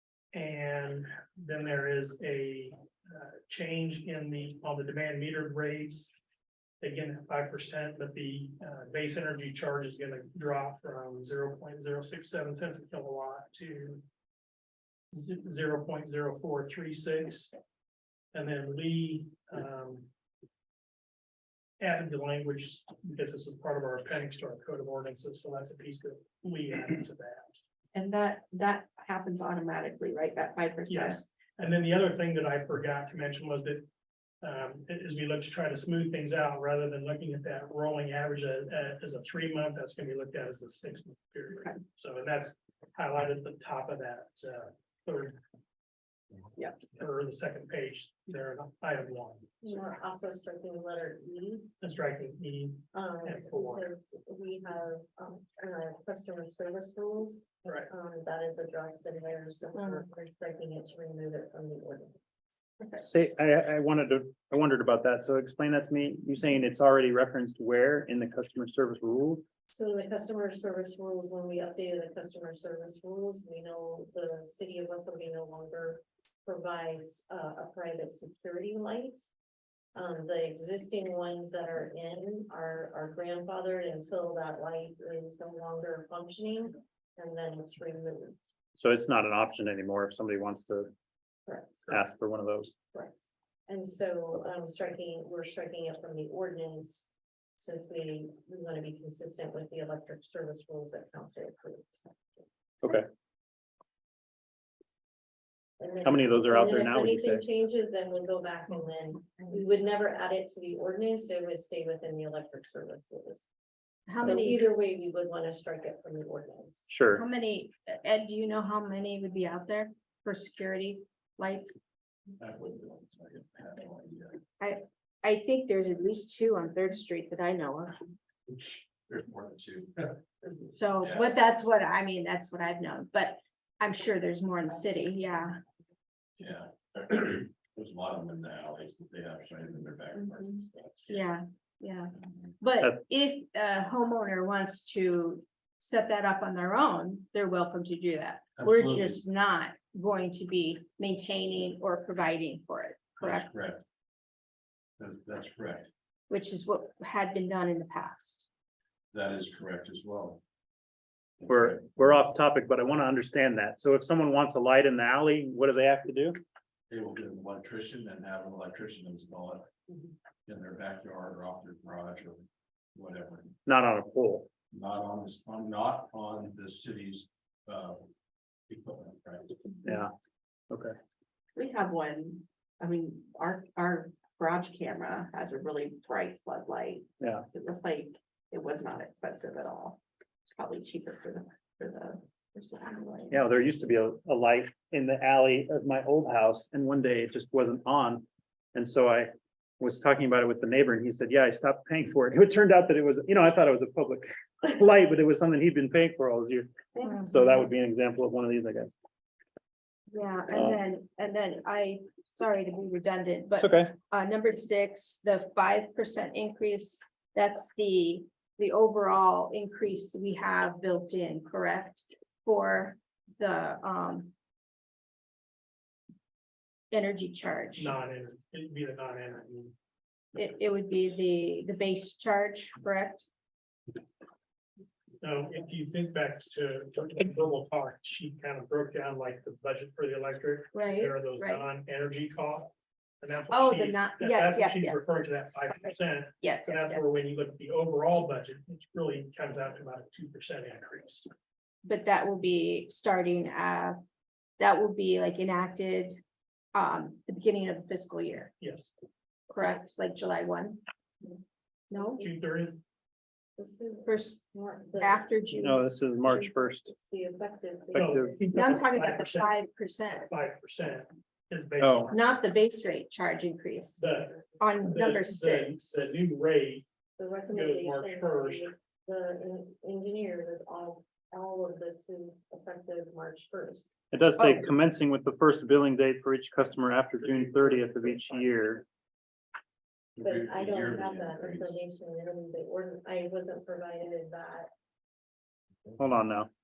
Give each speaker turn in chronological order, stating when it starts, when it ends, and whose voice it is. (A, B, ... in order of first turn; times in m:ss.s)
0:00.3-0:06.1 A
0:06.8-0:14.0 A
0:15.1-0:17.6 A
0:18.3-0:20.1 A
0:21.8-0:27.6 A
0:27.9-0:31.2 B
0:30.9-0:33.9 A
0:34.4-0:45.4 A
0:46.9-0:49.6 A
0:49.6-0:51.7 C
0:51.8-0:53.9 A
0:52.9-1:02.2 C
0:57.6-0:57.9 A
0:59.8-1:00.0 D
1:03.0-1:09.4 E
1:09.7-1:19.3 C
1:20.0-1:28.4 C
1:28.8-1:30.9 E
1:31.5-1:31.9 C
1:31.9-1:32.7 E
1:32.9-1:42.5 C
1:42.8-1:43.1 E
1:45.8-1:53.5 C
1:46.0-1:47.4 E
1:54.1-1:54.7 D
1:54.2-1:57.0 C
1:56.9-1:57.2 E
1:57.1-2:01.8 D
2:02.4-2:04.4 F
2:04.6-2:07.9 D
2:08.5-2:11.3 F
2:10.7-2:15.6 D
2:16.4-2:21.1 F
2:21.1-2:33.5 D
2:28.6-2:29.2 F
2:33.2-2:33.8 F
2:35.0-2:35.9 F
2:36.3-2:38.5 D
2:39.1-2:40.4 F
2:41.4-2:41.8 F
2:41.4-2:46.4 E
2:46.9-2:49.7 F
2:50.5-2:53.6 F
2:53.7-2:54.5 E
2:54.7-2:58.1 F
2:58.7-2:59.6 F
2:59.8-3:00.1 E
3:00.7-3:01.0 E
3:01.6-3:13.4 B
3:07.2-3:07.4 E
3:13.3-3:29.0 E
3:27.0-3:27.6 D
3:30.1-3:44.3 D
3:30.5-3:30.8 E
3:33.6-3:33.9 E
3:46.9-3:47.9 D
3:47.8-3:49.8 A
3:50.4-3:53.3 D
3:55.2-4:11.3 A
4:00.7-4:01.7 D
4:03.5-4:05.0 D
4:06.4-4:07.0 D
4:11.8-4:14.0 D
4:14.6-4:16.2 D
4:16.7-4:18.5 D
4:18.6-4:18.9 A
4:19.5-4:20.8 D
4:21.9-4:22.3 D
4:22.2-4:22.8 A
4:23.6-4:28.4 C
4:24.0-4:24.4 D
4:25.0-4:25.9 D
4:25.6-4:26.9 E
4:27.9-4:28.4 E
4:28.0-4:29.6 A
4:28.5-4:30.3 D
4:30.1-4:32.3 A
4:31.8-4:32.1 E
4:32.1-4:36.1 D
4:34.0-4:36.8 A
4:37.2-4:43.9 C
4:37.5-4:38.7 A
4:44.1-4:48.8 E
4:47.2-4:48.2 A
4:50.2-4:51.8 F
4:50.2-4:54.7 C
4:56.0-4:56.5 E